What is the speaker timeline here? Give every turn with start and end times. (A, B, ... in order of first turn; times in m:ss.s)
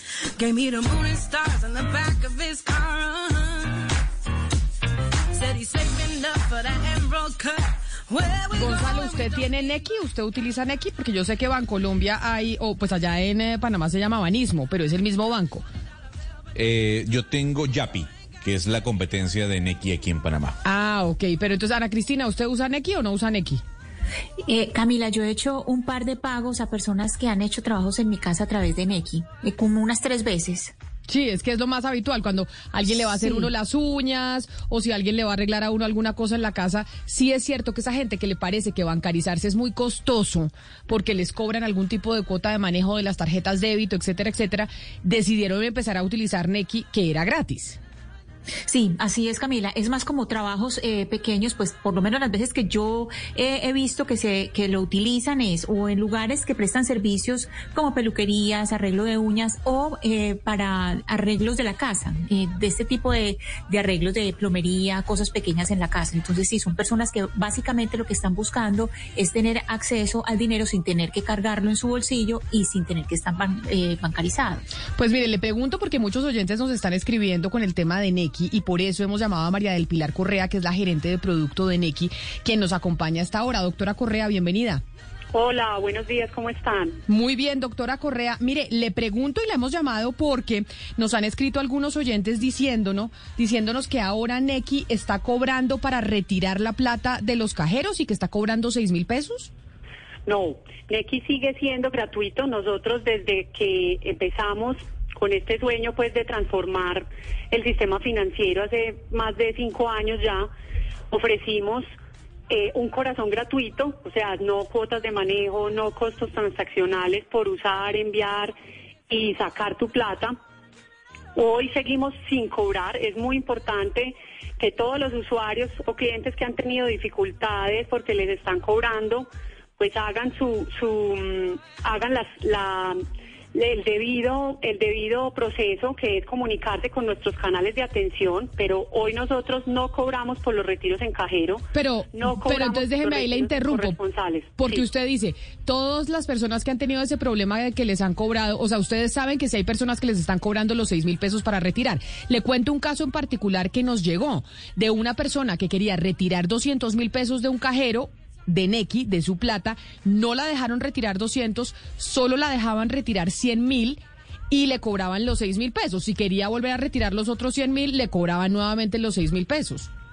0:00.4-0:03.9 A
0:05.3-0:09.5 A
0:08.6-0:15.6 B
0:16.5-0:20.6 C
0:20.6-0:23.6 B
0:24.4-0:30.7 D
0:31.1-0:47.8 B
0:48.7-1:14.7 D
1:14.9-1:24.8 B
1:25.3-1:27.0 E
1:27.1-1:39.5 B
1:40.2-1:50.5 E
1:51.1-1:51.9 E
1:52.5-1:58.5 E
1:59.1-2:00.4 E
2:01.3-2:09.3 E
2:09.8-2:13.0 E
2:13.5-2:24.8 E
2:21.7-2:24.0 B
2:24.6-2:49.9 B